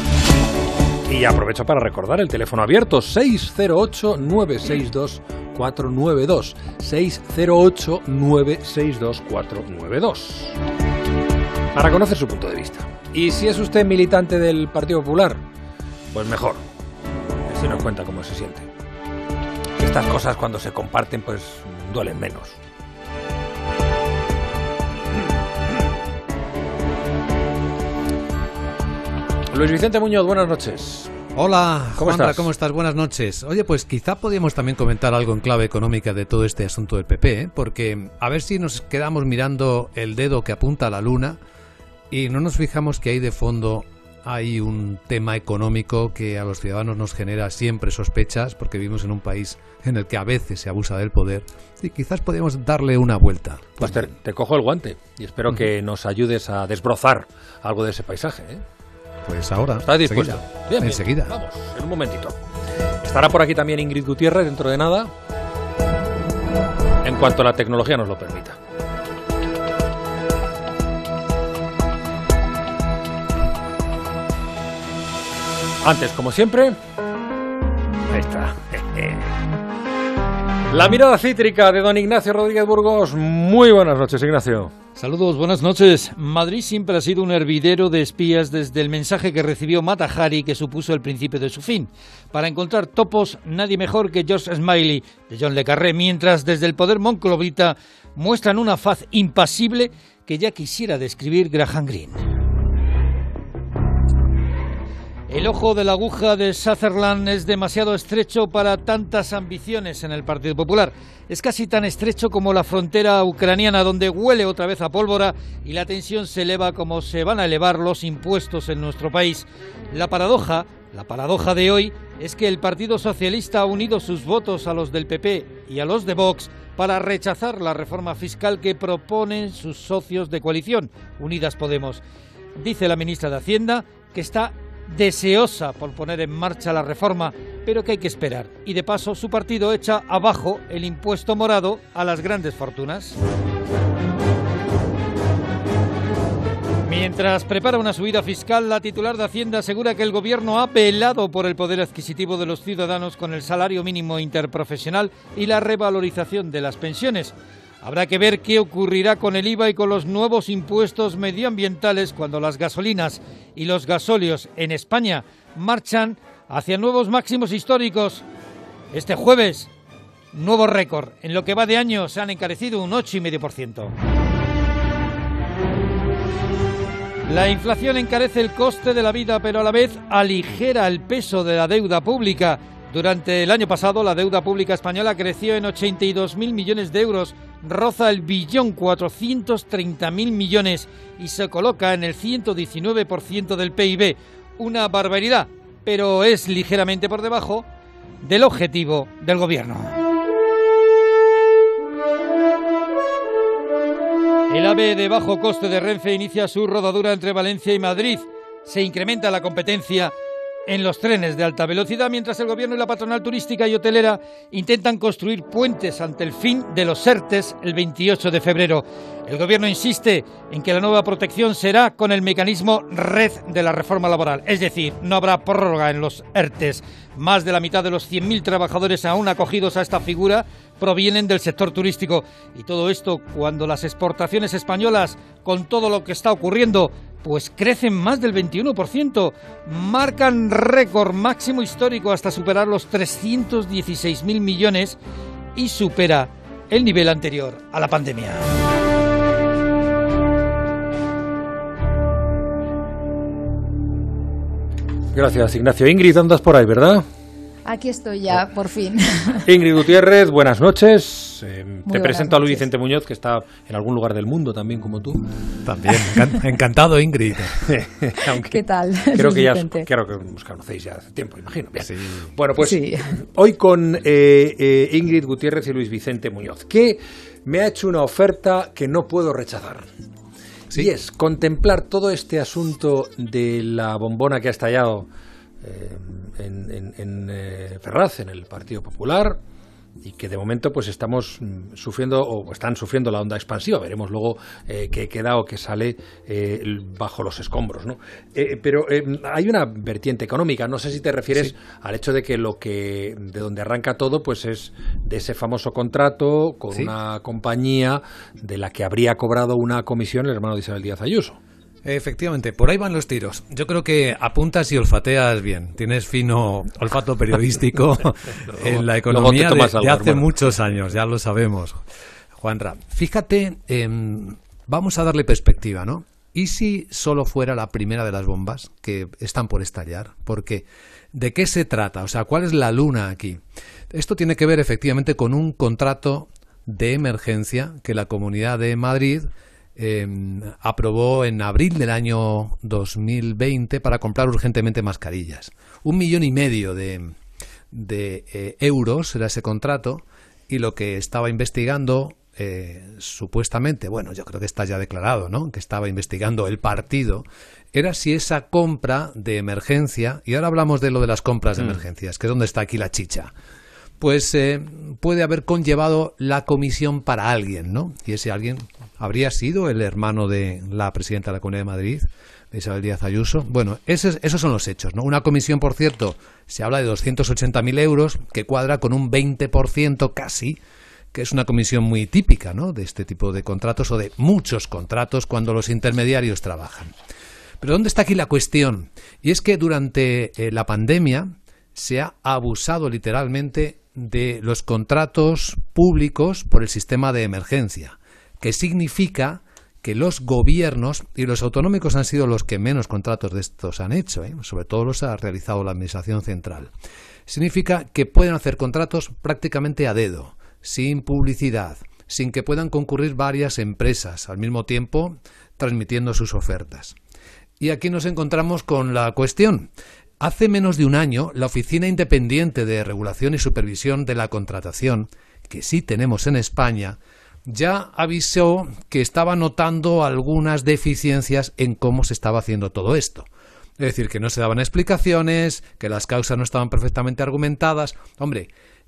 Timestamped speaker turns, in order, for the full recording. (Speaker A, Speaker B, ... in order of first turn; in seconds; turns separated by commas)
Speaker A: 1.1-10.6, Speaker A: 11.7-15.4, Speaker A: 16.1-16.6, Speaker A: 17.5-18.7, Speaker A: 19.8-22.6, Speaker A: 29.5-31.1, Speaker B: 31.3-41.4, Speaker A: 32.0-32.5, Speaker B: 42.1-54.1, Speaker A: 53.8-58.6, Speaker B: 59.2-61.3, Speaker A: 59.9-62.4, Speaker A: 63.0-65.1, Speaker A: 67.0-68.6, Speaker A: 75.8-76.8, Speaker A: 78.1-79.3, Speaker A: 80.7-84.7, Speaker C: 85.0-102.2, Speaker C: 105.3-132.0, Speaker C: 132.6-143.2, Speaker C: 146.9-168.2, Speaker C: 168.9-169.7, Speaker C: 170.3-173.9, Speaker C: 177.3-197.7, Speaker C: 198.2-200.0, Speaker C: 204.5-210.1, Speaker C: 210.7-245.0, Speaker C: 245.6-248.5, Speaker A: 255.1-257.1, Speaker D: 257.7-259.4, Speaker A: 259.5-265.3, Speaker D: 261.9-262.6, Speaker B: 265.6-267.6, Speaker A: 267.7-279.9, Speaker D: 268.4-269.9, Speaker B: 271.8-272.3, Speaker D: 272.6-273.1, Speaker A: 280.7-285.1, Speaker A: 285.6-289.4, Speaker A: 290.0-311.4, Speaker B: 311.9-321.8, Speaker A: 318.5-320.4, Speaker B: 322.4-347.1, Speaker B: 347.7-363.3, Speaker B: 364.0-380.6, Speaker B: 381.1-386.9, Speaker B: 387.6-406.7, Speaker B: 407.3-417.0, Speaker B: 417.6-433.3, Speaker B: 433.8-438.5